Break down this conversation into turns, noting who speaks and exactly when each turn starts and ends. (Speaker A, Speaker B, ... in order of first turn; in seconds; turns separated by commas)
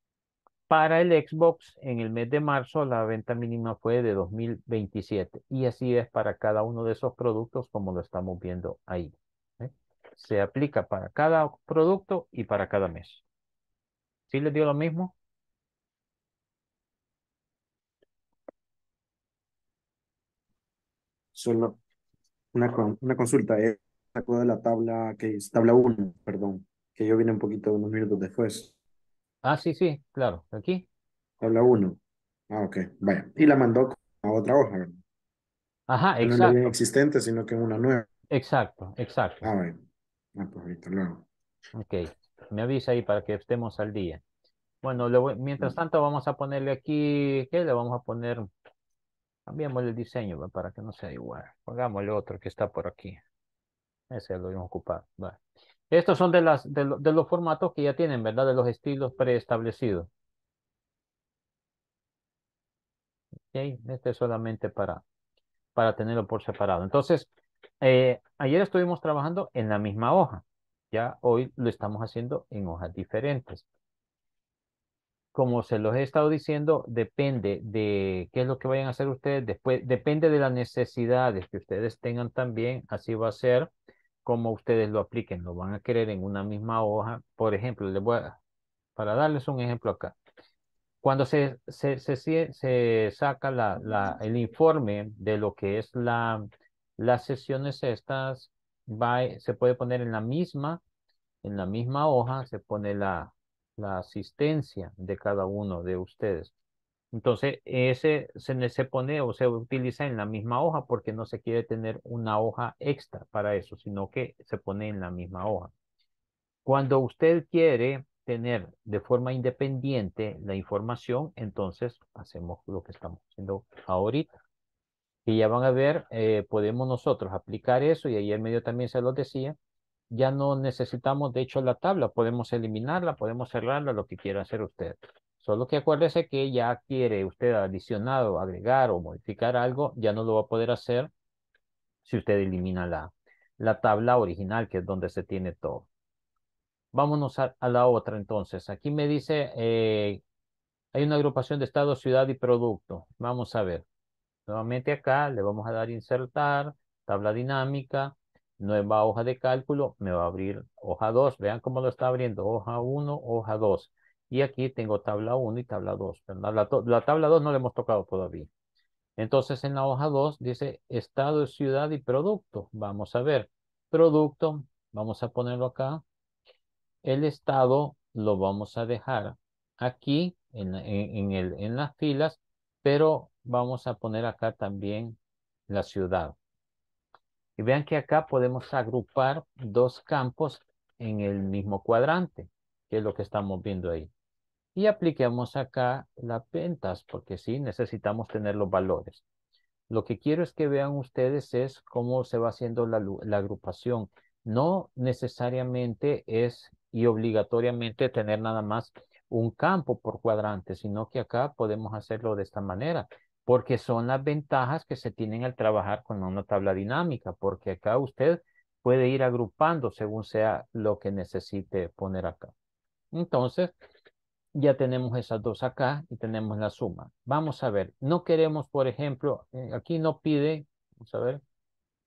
Speaker A: 0.7-13.2, Speaker A: 14.3-15.1, Speaker B: 21.4-21.8, Speaker B: 22.5-28.7, Speaker A: 29.4-30.9, Speaker B: 31.4-35.0, Speaker A: 35.9-36.6, Speaker B: 36.2-38.1, Speaker A: 38.3-39.5, Speaker B: 39.4-39.8, Speaker B: 40.4-41.3, Speaker A: 41.8-44.2, Speaker A: 44.8-48.5, Speaker A: 49.5-53.2, Speaker A: 54.1-55.4, Speaker A: 55.9-60.1, Speaker A: 63.5-65.0, Speaker A: 65.8-67.3, Speaker A: 67.8-73.7, Speaker A: 75.3-83.7, Speaker A: 84.2-88.4, Speaker A: 89.0-90.2, Speaker A: 91.0-96.5, Speaker A: 97.0-100.8, Speaker A: 101.4-106.5, Speaker A: 107.1-115.7, Speaker A: 116.7-124.3, Speaker A: 125.3-129.6, Speaker A: 130.1-141.1, Speaker A: 142.1-145.9, Speaker A: 146.9-150.2, Speaker A: 150.9-153.8, Speaker A: 154.5-168.5, Speaker A: 169.2-176.0, Speaker A: 177.1-185.2, Speaker A: 185.7-186.4, Speaker A: 187.6-194.1, Speaker A: 194.8-199.2, Speaker A: 199.9-222.5, Speaker A: 223.1-223.7, Speaker A: 224.6-231.4